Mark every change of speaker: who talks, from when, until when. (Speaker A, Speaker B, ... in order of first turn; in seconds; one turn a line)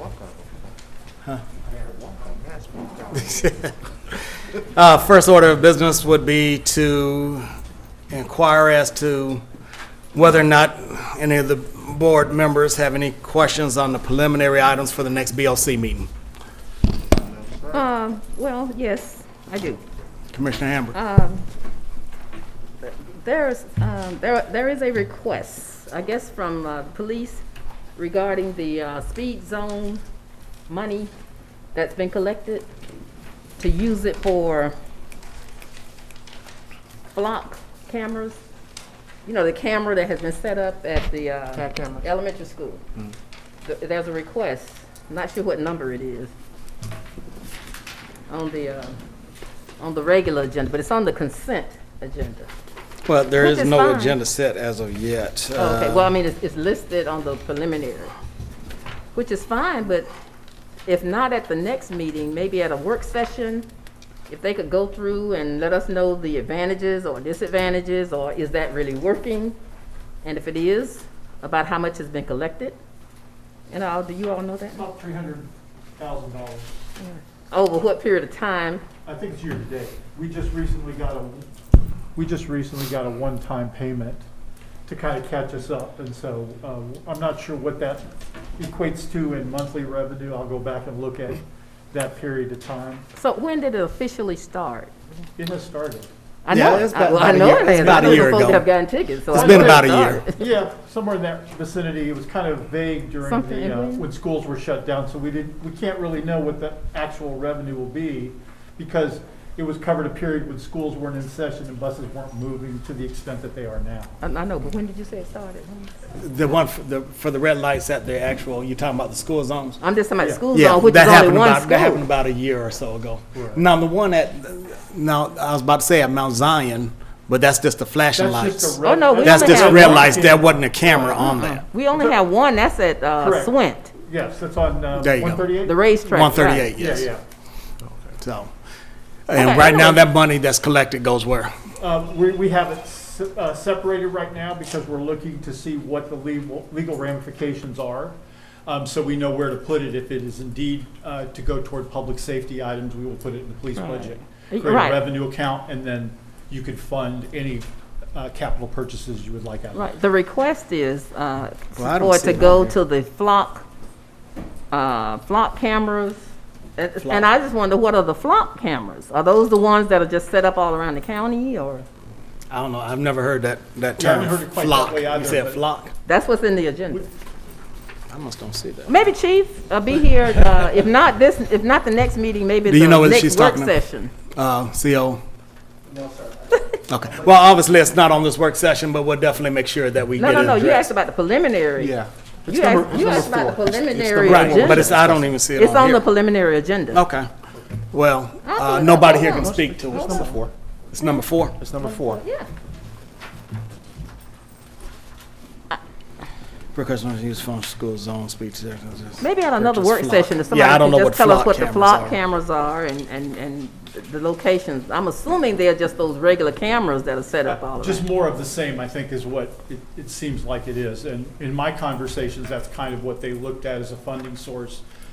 Speaker A: 3.1-7.5
Speaker A: 8.1-9.4
Speaker A: 10.1-16.1
Speaker B: 17.4-17.7
Speaker C: 17.7-19.8
Speaker A: 20.3-20.9
Speaker C: 20.9-21.4
Speaker C: 22.8-27.4
Speaker C: 27.9-30.0
Speaker C: 30.7-31.1
Speaker C: 31.7-32.7
Speaker C: 33.6-34.7
Speaker C: 37.1-38.4
Speaker C: 39.2-42.8
Speaker C: 43.6-46.3
Speaker C: 48.3-49.0
Speaker C: 49.8-52.5
Speaker A: 53.0-56.1
Speaker C: 53.4-54.2
Speaker C: 55.5-58.1
Speaker C: 59.1-60.1
Speaker C: 60.9-63.7
Speaker C: 64.3-69.5
Speaker C: 70.2-72.8
Speaker C: 73.7-74.8
Speaker D: 74.7-76.7
Speaker C: 77.0-78.8
Speaker D: 79.0-81.5
Speaker D: 82.1-84.2
Speaker D: 84.9-93.0
Speaker C: 93.1-94.9
Speaker D: 95.4-96.1
Speaker C: 96.4-100.4
Speaker A: 96.5-98.7
Speaker D: 97.6-98.2
Speaker A: 99.3-100.2
Speaker D: 99.3-114.2
Speaker C: 103.2-104.1
Speaker C: 114.2-116.0
Speaker A: 116.2-119.8
Speaker C: 119.8-122.0
Speaker A: 120.5-131.6
Speaker D: 123.3-123.6
Speaker D: 128.1-131.4
Speaker C: 128.8-130.2
Speaker C: 131.2-133.9
Speaker D: 133.2-135.8
Speaker A: 134.9-135.5
Speaker C: 135.6-136.7
Speaker A: 136.1-137.1
Speaker D: 136.7-137.2
Speaker A: 138.2-138.5
Speaker A: 139.3-141.5
Speaker C: 139.3-140.0
Speaker D: 141.8-159.9
Speaker C: 153.8-155.0
Speaker C: 159.7-163.6
Speaker A: 161.8-162.7
Speaker C: 164.7-166.2
Speaker C: 166.8-171.9
Speaker A: 172.5-175.9
Speaker D: 174.0-175.6
Speaker C: 176.1-177.1
Speaker A: 178.1-178.9
Speaker C: 178.9-184.1
Speaker A: 182.7-183.7
Speaker A: 184.3-185.2
Speaker D: 185.9-186.4
Speaker C: 186.5-186.8
Speaker A: 186.9-190.9
Speaker C: 190.2-191.9
Speaker B: 191.8-195.3
Speaker C: 192.5-195.0
Speaker A: 194.2-196.0
Speaker C: 195.6-197.0
Speaker A: 196.9-197.3
Speaker A: 197.9-200.3
Speaker C: 198.4-200.3
Speaker B: 199.3-200.5
Speaker A: 200.9-201.6
Speaker B: 201.6-202.2
Speaker C: 201.8-202.5
Speaker A: 206.7-212.2
Speaker C: 209.2-218.1
Speaker D: 217.4-224.8